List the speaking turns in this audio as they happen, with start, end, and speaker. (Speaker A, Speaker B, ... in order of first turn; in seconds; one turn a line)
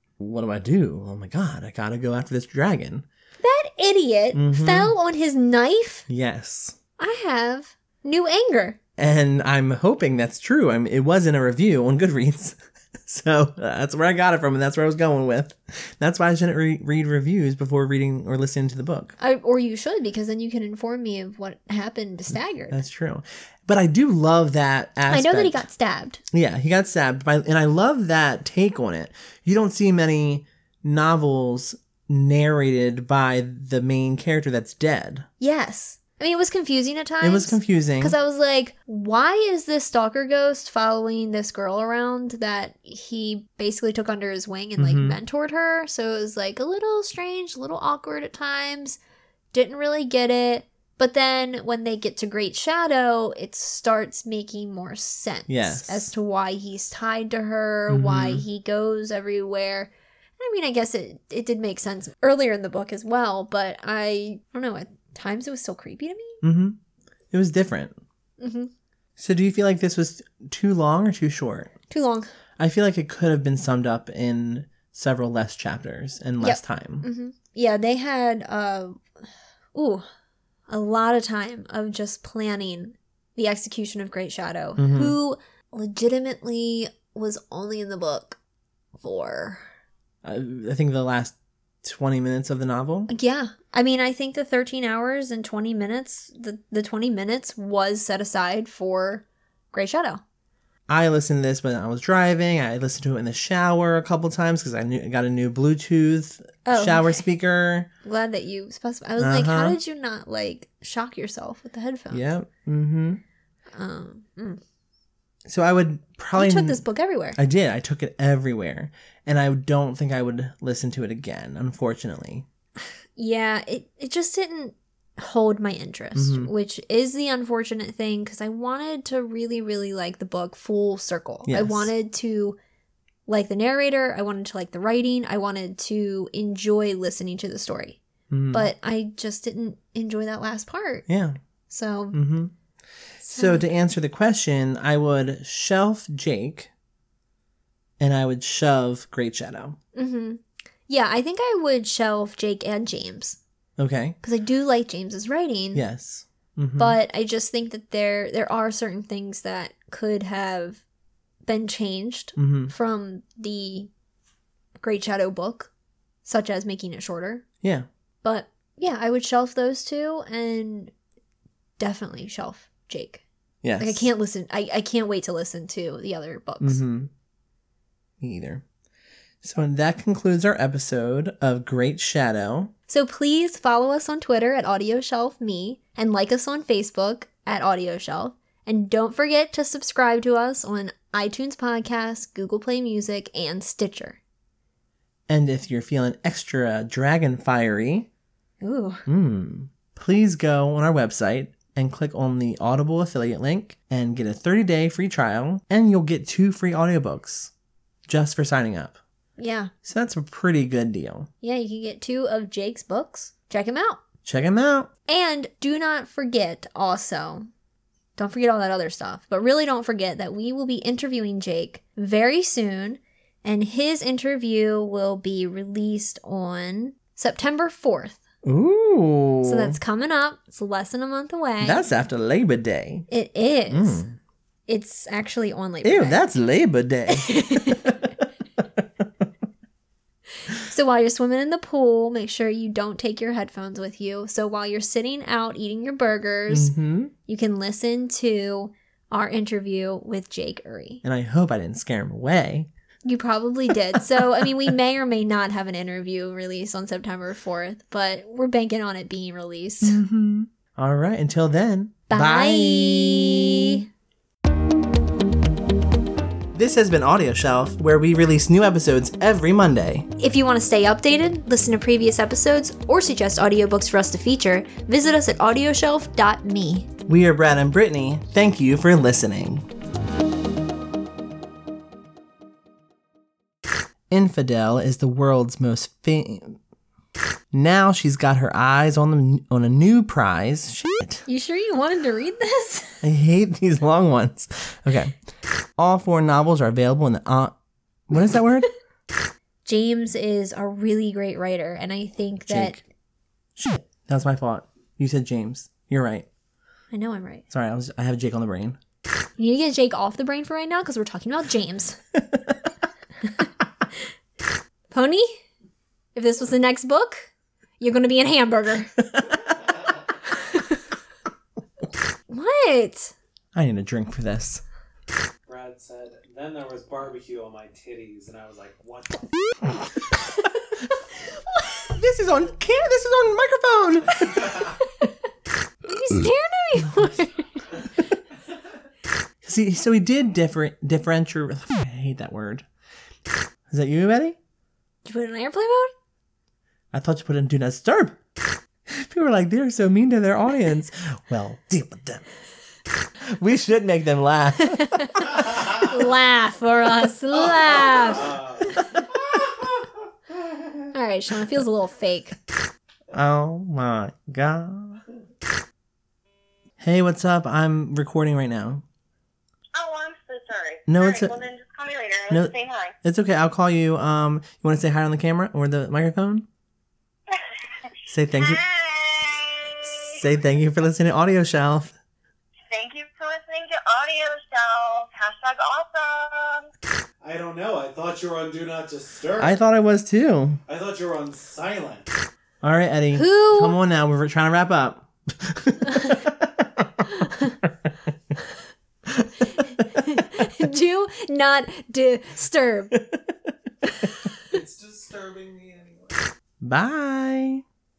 Speaker A: 0.2-3.0
Speaker B: 3.4-6.0
Speaker A: 4.3-4.9
Speaker A: 6.1-6.8
Speaker B: 7.0-8.8
Speaker A: 9.0-19.1
Speaker B: 19.2-22.8
Speaker A: 22.7-25.6
Speaker B: 25.1-26.2
Speaker A: 26.3-35.2
Speaker B: 35.4-49.0
Speaker A: 37.2-38.1
Speaker A: 44.8-45.2
Speaker B: 49.5-66.4
Speaker A: 55.5-56.1
Speaker A: 57.9-58.4
Speaker A: 66.4-66.8
Speaker A: 67.3-68.0
Speaker B: 68.4-68.7
Speaker A: 69.2-71.7
Speaker B: 71.9-72.3
Speaker A: 72.6-77.1
Speaker B: 76.4-80.0
Speaker B: 80.7-88.4
Speaker A: 84.8-85.2
Speaker B: 89.0-89.7
Speaker A: 90.2-93.1
Speaker B: 93.1-100.2
Speaker A: 100.9-107.9
Speaker B: 106.7-107.2
Speaker B: 108.0-112.2
Speaker A: 109.2-109.8
Speaker A: 112.1-113.2
Speaker B: 113.7-114.6
Speaker A: 115.5-116.8
Speaker B: 116.3-117.4
Speaker A: 117.3-122.5
Speaker B: 123.2-132.6
Speaker A: 126.1-126.5
Speaker A: 131.4-131.9
Speaker B: 133.3-138.0
Speaker A: 138.3-138.7
Speaker B: 138.5-141.1
Speaker A: 141.1-141.4
Speaker B: 141.7-142.1
Speaker A: 142.1-142.5
Speaker B: 143.2-143.7
Speaker A: 143.2-146.7
Speaker A: 148.0-149.8
Speaker B: 149.9-153.4
Speaker A: 153.8-154.2
Speaker B: 154.2-155.8
Speaker A: 155.7-157.0
Speaker B: 156.8-160.8
Speaker B: 161.4-163.9
Speaker A: 162.3-162.7
Speaker B: 164.8-165.7
Speaker B: 166.2-167.4
Speaker B: 168.2-170.9
Speaker B: 171.8-173.2
Speaker A: 173.6-174.1
Speaker B: 173.8-176.8
Speaker A: 176.6-177.1
Speaker A: 178.2-178.6
Speaker A: 179.4-182.7
Speaker B: 182.9-194.2
Speaker A: 195.3-198.1
Speaker B: 198.6-199.1
Speaker A: 199.1-207.5
Speaker A: 208.1-209.0
Speaker B: 209.4-209.7
Speaker A: 209.8-211.3
Speaker B: 211.4-214.0
Speaker A: 214.2-214.9
Speaker B: 215.1-217.5
Speaker B: 218.2-228.2
Speaker A: 228.4-229.8
Speaker B: 229.4-231.9
Speaker A: 231.6-233.1
Speaker B: 233.1-234.0
Speaker A: 233.7-234.2
Speaker B: 234.7-236.2
Speaker A: 235.8-238.2
Speaker B: 237.1-237.9
Speaker B: 240.5-246.7
Speaker A: 246.5-247.1
Speaker B: 247.3-251.0
Speaker A: 251.0-252.7
Speaker B: 253.0-260.0
Speaker A: 259.8-263.8
Speaker B: 262.1-263.8
Speaker A: 266.5-270.1
Speaker B: 270.2-276.9
Speaker A: 277.1-279.6
Speaker A: 284.1-286.6
Speaker A: 287.5-291.2
Speaker B: 291.2-293.0
Speaker A: 293.0-295.1
Speaker A: 295.8-297.5
Speaker A: 298.1-298.7
Speaker B: 299.6-302.8
Speaker A: 302.5-302.8
Speaker A: 303.6-306.3
Speaker B: 306.9-307.4
Speaker A: 307.5-308.8
Speaker B: 309.4-312.0
Speaker B: 313.2-313.5
Speaker B: 314.9-315.4
Speaker B: 316.1-318.9
Speaker B: 320.3-320.8
Speaker B: 322.3-323.1
Speaker A: 323.5-324.6
Speaker C: 325.5-329.3
Speaker A: 331.9-334.6
Speaker B: 334.6-335.1
Speaker B: 335.8-337.7
Speaker A: 339.4-342.6
Speaker A: 343.7-344.4
Speaker B: 345.0-345.9
Speaker A: 346.9-348.2
Speaker A: 348.9-352.3
Speaker A: 353.3-355.4
Speaker B: 354.6-358.4
Speaker C: 357.9-358.7
Speaker A: 358.7-359.0
Speaker B: 360.9-362.4
Speaker A: 363.1-365.0
Speaker A: 366.8-368.8
Speaker D: 369.7-372.9
Speaker A: 370.9-371.4
Speaker A: 372.3-376.4
Speaker A: 378.1-378.6
Speaker D: 378.3-380.2
Speaker A: 380.1-381.9
Speaker D: 382.7-386.7
Speaker C: 387.2-389.6
Speaker A: 389.4-390.6
Speaker C: 390.7-392.1
Speaker A: 392.6-397.1
Speaker B: 393.1-393.8
Speaker B: 397.1-397.5
Speaker A: 399.1-400.0
Speaker B: 399.9-402.9
Speaker B: 403.8-404.4
Speaker C: 404.5-406.2
Speaker A: 406.6-407.6